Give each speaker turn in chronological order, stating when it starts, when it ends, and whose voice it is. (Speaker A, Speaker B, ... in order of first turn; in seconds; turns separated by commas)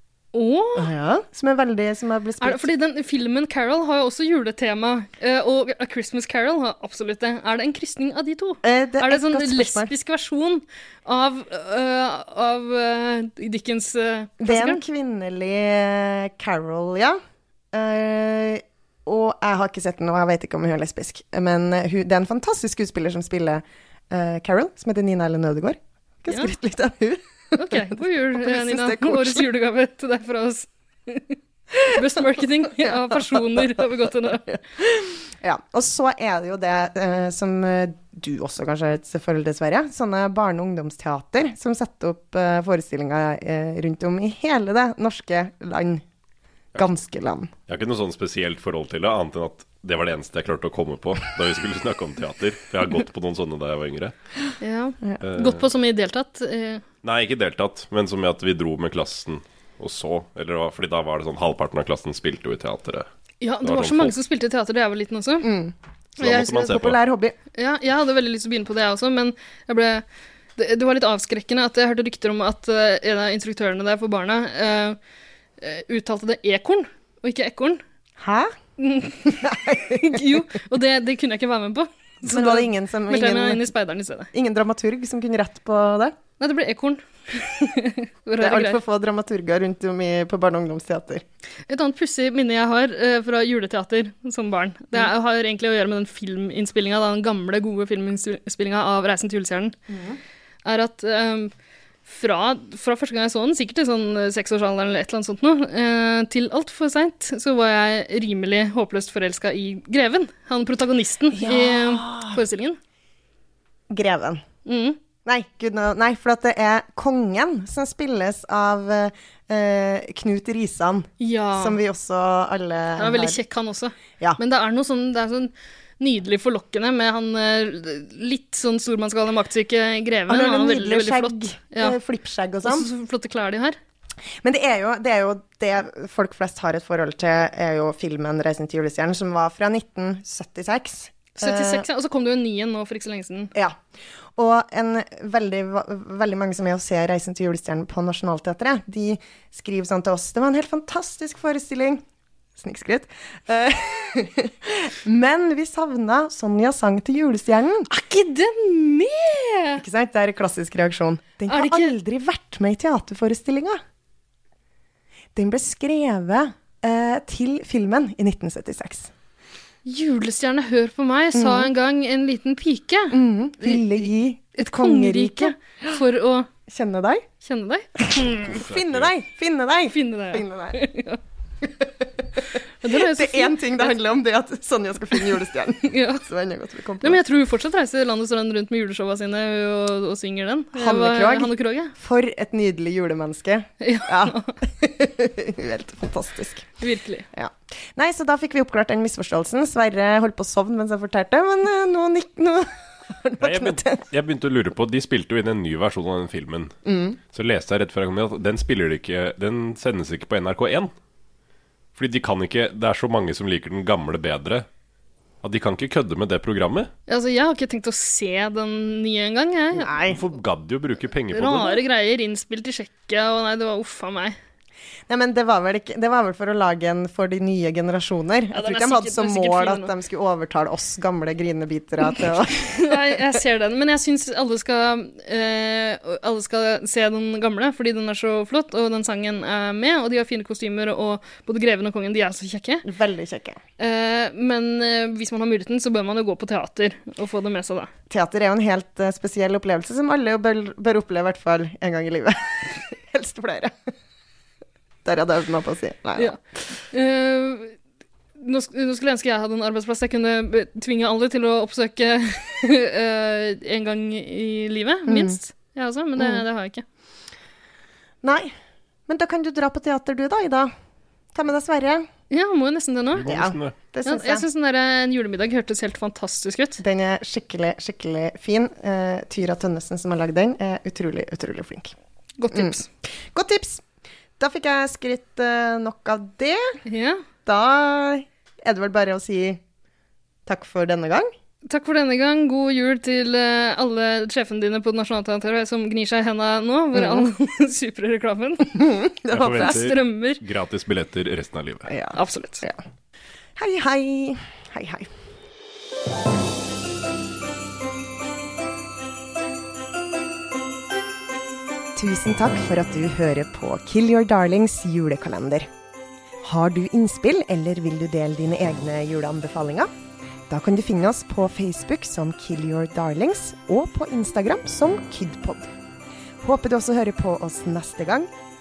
Speaker A: 0.3-0.9, Speaker B: 0.8-2.7, Speaker A: 2.4-14.8, Speaker B: 8.6-9.9, Speaker B: 14.4-17.2, Speaker B: 17.7-29.5, Speaker A: 27.5-34.6, Speaker B: 31.7-32.0, Speaker B: 32.8-33.6, Speaker B: 34.5-46.0, Speaker B: 46.8-47.5, Speaker C: 47.7-54.1, Speaker A: 54.6-56.8, Speaker C: 55.2-55.6, Speaker C: 57.0-63.1, Speaker A: 63.4-65.5, Speaker C: 63.6-64.2, Speaker B: 65.4-67.4, Speaker C: 66.2-67.0, Speaker A: 67.5-70.0, Speaker A: 70.6-75.0, Speaker A: 75.6-77.8, Speaker B: 78.2-78.5, Speaker A: 78.8-84.3, Speaker B: 79.2-80.4, Speaker B: 82.3-83.7, Speaker B: 84.3-86.2, Speaker A: 86.4-88.8, Speaker B: 88.4-91.2, Speaker A: 91.7-99.8, Speaker B: 99.9-100.2, Speaker A: 100.7-101.5, Speaker A: 102.1-112.8, Speaker B: 111.3-112.4, Speaker B: 113.9-114.4, Speaker A: 114.7-115.0, Speaker B: 115.2-123.4, Speaker A: 121.2-121.8, Speaker A: 123.0-132.0, Speaker B: 130.3-132.9, Speaker A: 132.6-133.8, Speaker B: 134.4-141.9, Speaker A: 141.4-143.5, Speaker B: 143.5-143.8, Speaker B: 144.4-152.0, Speaker B: 152.6-157.9, Speaker A: 157.9-159.8, Speaker B: 159.8-163.8, Speaker A: 161.5-161.9, Speaker B: 165.3-169.1, Speaker A: 169.8-173.8, Speaker B: 171.3-171.7, Speaker B: 173.1-175.9, Speaker A: 174.6-176.5, Speaker B: 176.7-177.3, Speaker A: 177.4-178.7, Speaker B: 178.0-180.8, Speaker C: 178.5-179.1, Speaker A: 179.9-181.2, Speaker B: 181.6-187.2, Speaker A: 182.8-184.0, Speaker A: 185.9-186.2, Speaker A: 187.0-191.9, Speaker B: 190.7-196.7, Speaker A: 193.8-194.6, Speaker A: 196.8-197.3, Speaker B: 197.3-204.0, Speaker C: 203.4-206.8, Speaker B: 206.8-207.2, Speaker C: 207.3-210.9, Speaker C: 212.0-214.7, Speaker C: 215.4-216.9, Speaker A: 217.1-219.9, Speaker B: 219.7-220.2, Speaker C: 220.1-221.8, Speaker A: 221.3-224.4, Speaker B: 225.1-233.3, Speaker A: 228.5-229.9, Speaker A: 232.2-242.9, Speaker B: 242.8-243.6, Speaker A: 243.8-247.9, Speaker B: 248.1-253.8, Speaker B: 255.0-256.4, Speaker A: 256.9-257.8, Speaker A: 258.4-266.8, Speaker B: 265.1-265.4, Speaker B: 268.2-268.6, Speaker B: 269.1-270.7, Speaker B: 271.3-272.1, Speaker A: 272.3-273.3, Speaker C: 273.2-273.8, Speaker B: 273.3-274.5, Speaker A: 274.0-276.8, Speaker B: 276.8-281.9, Speaker A: 282.4-282.9, Speaker B: 283.3-283.8, Speaker B: 284.4-286.8, Speaker A: 286.9-287.2, Speaker B: 287.5-289.6, Speaker B: 290.5-291.3, Speaker A: 291.7-298.9, Speaker B: 296.9-297.3, Speaker B: 298.8-299.9, Speaker C: 299.3-301.9, Speaker A: 299.5-300.4, Speaker B: 301.9-302.8, Speaker A: 302.1-302.6, Speaker B: 303.6-305.1, Speaker B: 311.9-315.7, Speaker B: 316.4-319.9, Speaker B: 320.5-325.7, Speaker B: 326.4-328.3